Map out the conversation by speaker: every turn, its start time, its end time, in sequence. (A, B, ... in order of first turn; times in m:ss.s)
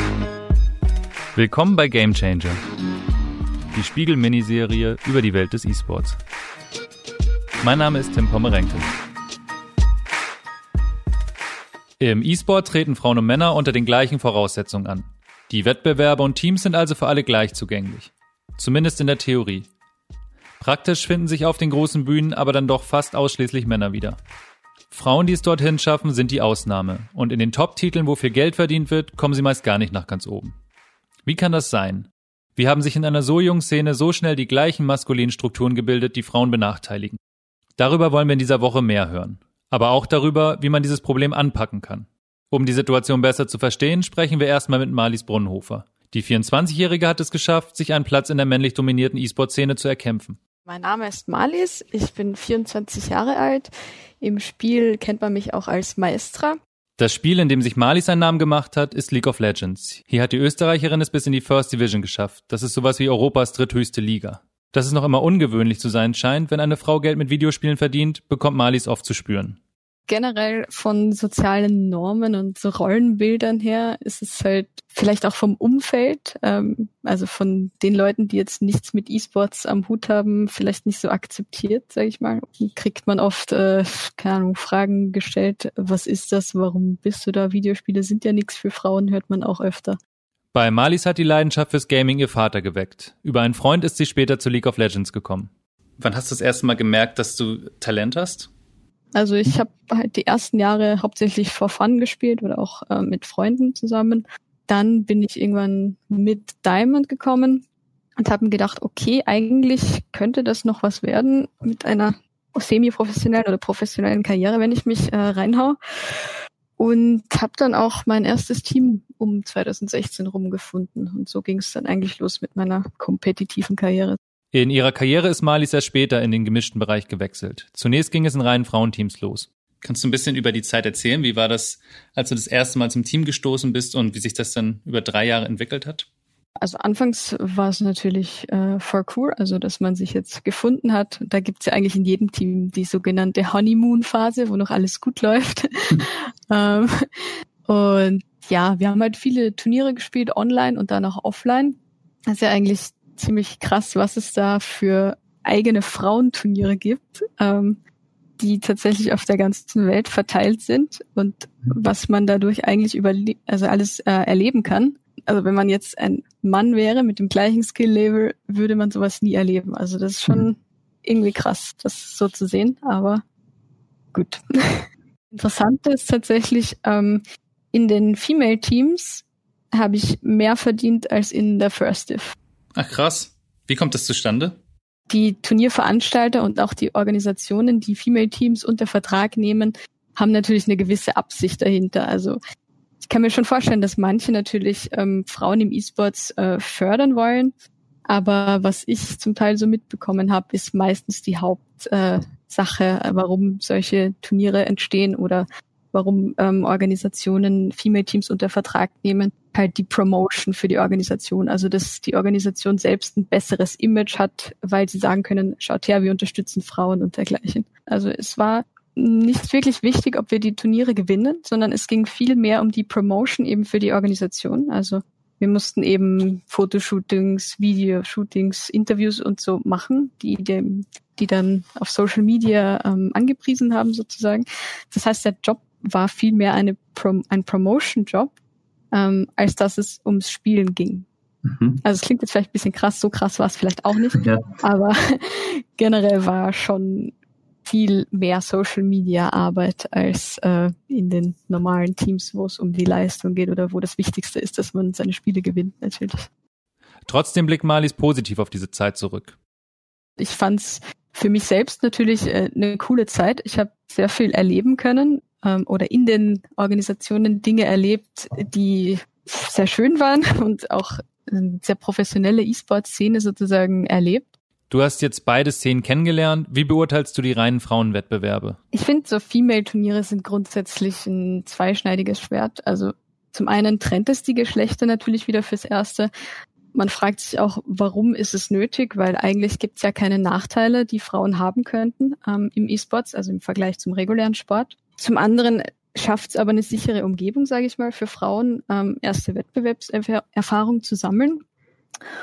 0:01.3-0:02.6 A
0:03.7-0:06.2 A
0:07.6-0:08.8 A
0:12.0-0:19.7 A
0:20.6-0:24.2 A
0:24.9-0:30.5 A
0:31.2-0:37.2 A
0:37.8-0:50.4 A
0:50.7-0:56.6 B
0:57.0-1:09.6 A
1:10.1-1:30.0 B
1:30.5-1:38.5 A
1:39.1-1:47.6 B
1:48.2-1:56.2 B
1:56.8-2:04.2 B
2:04.5-2:16.1 A
2:16.6-2:27.0 B
2:27.7-2:37.8 B
2:38.4-2:53.2 B
2:54.1-3:02.4 B
3:02.7-3:04.6 A
3:05.1-3:12.4 B
3:13.0-3:17.5 B
3:18.1-3:58.3 B
3:58.9-4:01.0 B
4:01.8-4:07.1 B
4:07.6-4:16.3 B
4:17.1-4:19.4 A
4:20.2-4:34.3 B
4:34.7-4:38.6 A
4:38.7-4:46.1 B
4:46.7-5:01.4 B